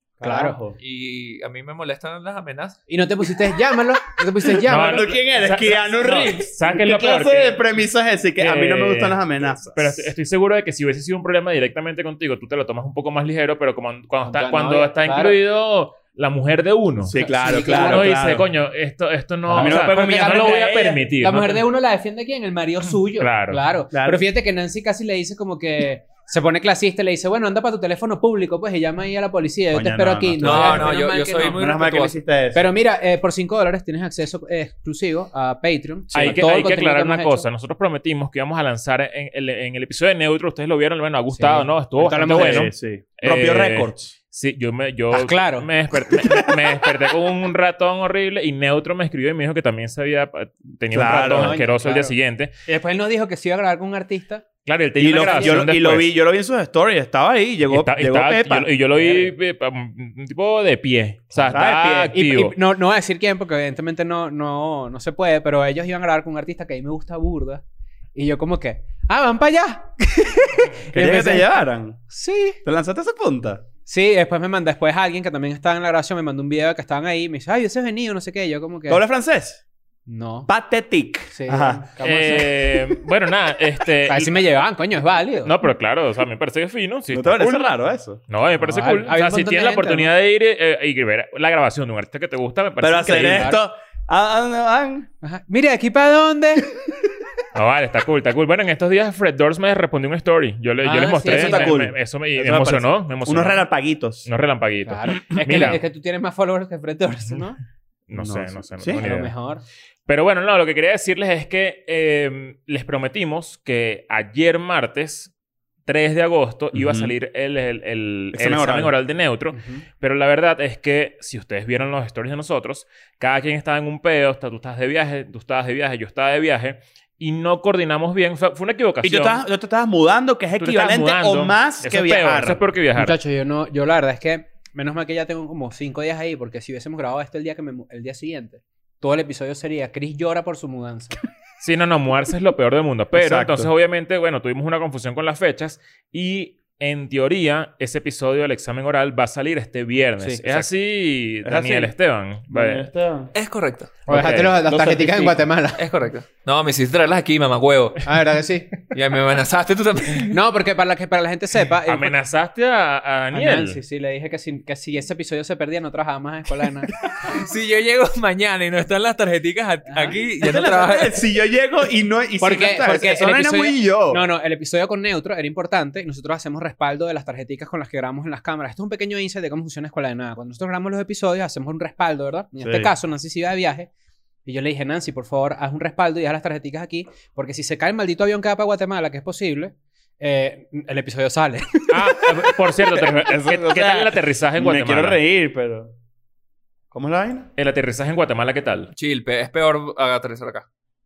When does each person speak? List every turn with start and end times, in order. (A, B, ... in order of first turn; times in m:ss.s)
0:00.2-0:00.8 A
0:00.2-0:00.6 B
0:00.8-0:02.8 C
0:02.9-0:05.1 B
0:04.6-0:07.6 D
0:04.7-0:10.1 A
0:08.4-0:21.6 D
0:14.3-0:15.4 B
0:17.0-0:18.5 A
0:17.2-0:18.2 B
0:19.5-0:31.6 B
0:19.5-0:21.0 A
0:22.9-0:23.6 D
0:23.9-0:24.2 A
0:29.7-0:32.7 A
0:30.4-0:32.2 C
0:32.5-0:37.5 B
0:36.1-0:36.4 A
0:36.2-0:52.5 D
0:41.3-0:42.7 B
0:42.4-0:44.1 A
0:45.1-0:46.5 B
0:50.9-0:51.6 A
0:51.2-0:52.2 B
0:52.7-0:54.5 B
0:54.6-0:56.1 D
0:55.0-0:58.7 A
0:55.1-0:55.6 B
0:57.7-1:02.6 D
0:59.0-0:59.3 B
1:01.4-1:02.2 A
1:02.1-1:07.6 B
1:08.2-1:11.5 B
1:10.9-1:12.0 A
1:12.1-1:12.6 B
1:12.6-1:13.6 A
1:13.9-1:19.0 B
1:18.9-1:19.6 A
1:20.1-1:20.5 B
1:20.5-1:21.8 A
1:21.3-1:22.9 B
1:22.0-1:24.4 D
1:24.1-1:25.5 B
1:25.4-1:27.6 D
1:27.1-1:28.2 A
1:28.3-1:33.5 D
1:28.6-1:30.1 B
1:32.8-1:35.1 A
1:33.1-1:33.6 B
1:35.2-1:36.7 B
1:37.5-1:43.6 D
1:40.8-1:41.8 B
1:41.2-1:44.3 A
1:44.2-1:45.8 D
1:44.9-1:47.6 B
1:48.1-1:49.3 D
1:48.2-1:49.0 A
1:48.9-1:49.6 B
1:50.1-1:55.3 D
1:55.9-2:09.4 D
1:56.7-1:57.1 A
1:58.3-1:58.9 A
1:59.5-1:59.8 B
2:09.0-2:12.6 A
2:10.6-2:13.2 D
2:13.0-2:21.2 B
2:21.6-2:32.9 D
2:23.2-2:23.7 A
2:30.2-2:30.6 B
2:31.4-2:31.9 A
2:32.5-2:33.3 A
2:33.4-2:34.0 C
2:34.1-2:35.8 B
2:34.1-2:34.6 D
2:34.7-2:38.1 C
2:34.8-2:35.2 A
2:38.1-2:38.8 B
2:38.9-2:40.4 C
2:40.3-2:42.1 B
2:41.9-2:43.8 D
2:43.3-2:46.9 B
2:47.2-2:51.2 C
2:49.9-2:50.2 B
2:50.4-2:54.2 A
2:52.4-3:03.9 B
3:02.6-3:02.9 A
3:04.4-3:12.5 B
3:11.9-3:15.2 D
3:12.9-3:15.9 A
3:16.9-3:17.5 A
3:17.6-3:18.9 D
3:18.9-3:20.7 C